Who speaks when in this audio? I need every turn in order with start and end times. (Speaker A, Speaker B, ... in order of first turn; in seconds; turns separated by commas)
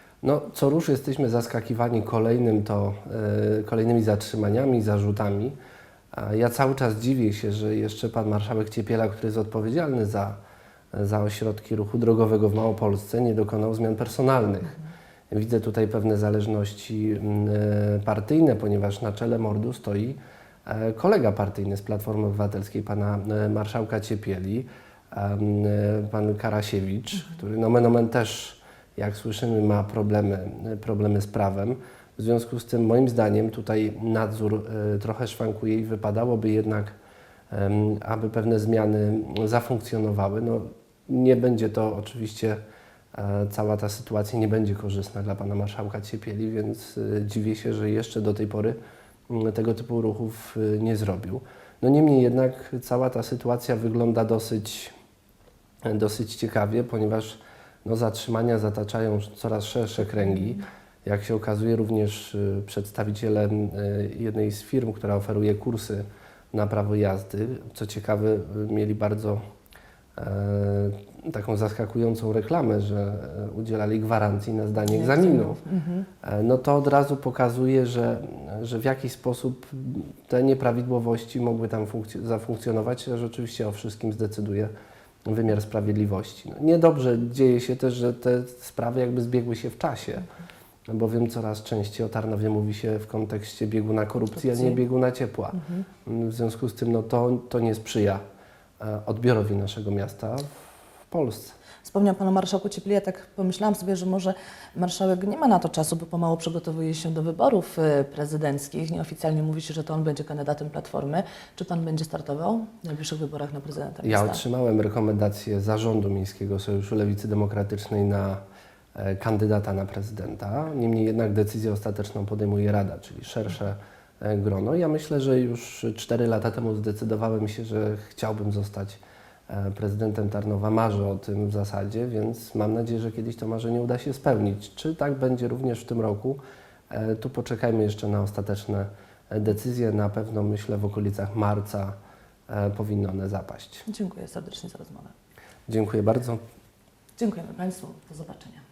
Speaker A: 0.2-5.5, Speaker A: 6.1-10.4, Speaker A: 10.9-14.8, Speaker A: 15.3-36.9, Speaker A: 37.5-42.6, Speaker A: 43.1-48.8, Speaker A: 49.3-54.9, Speaker A: 55.9-69.4, Speaker A: 70.2-75.6, Speaker B: 74.8-76.1, Speaker A: 76.2-84.7, Speaker A: 85.3-90.3, Speaker A: 90.9-98.2, Speaker A: 98.8-100.5, Speaker A: 101.1-101.5, Speaker B: 101.8-114.4, Speaker A: 114.0-118.4, Speaker A: 119.0-136.4, Speaker A: 136.9-142.0, Speaker A: 142.5-143.8, Speaker B: 143.9-145.1, Speaker A: 145.7-146.4, Speaker B: 147.2-148.6